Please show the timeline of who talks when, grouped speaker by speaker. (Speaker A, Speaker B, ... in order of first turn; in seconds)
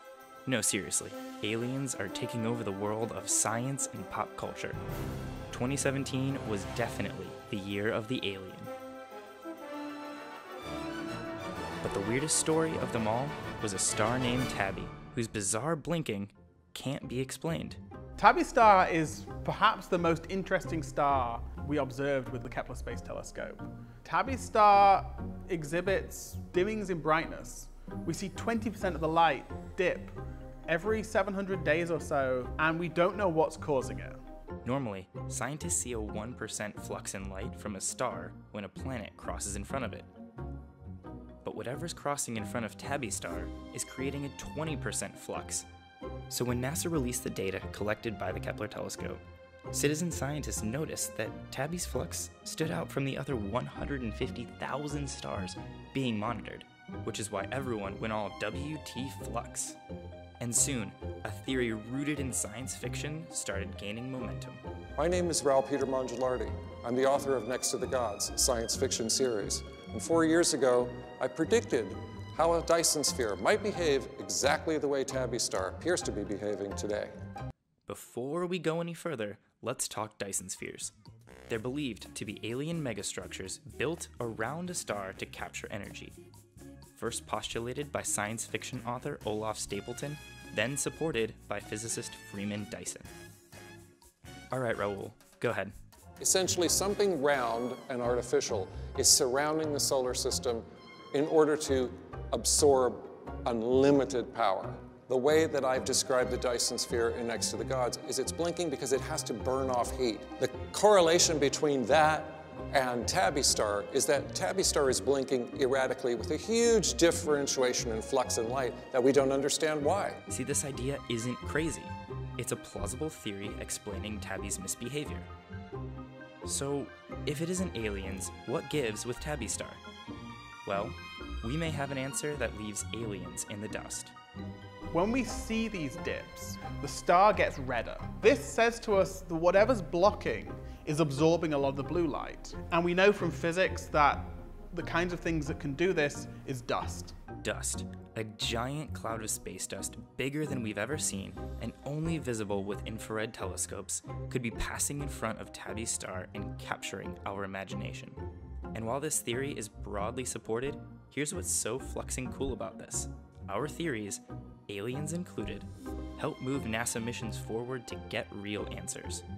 Speaker A: 0.5-4.8, 5.5-8.7, 11.8-17.8, 34.6-40.1, 41.4-45.6, 46.3-59.8, 60.4-64.6, 77.9-80.9, 81.5-86.2, 86.9-93.1, 94.5-95.7, 120.3-125.3, 126.4-129.8, 130.6-134.1, 147.4-158.2, 158.7-169.2
Speaker B: 18.2-30.1, 30.7-34.2, 134.9-147.1
Speaker C: 65.0-77.1, 96.2-120.2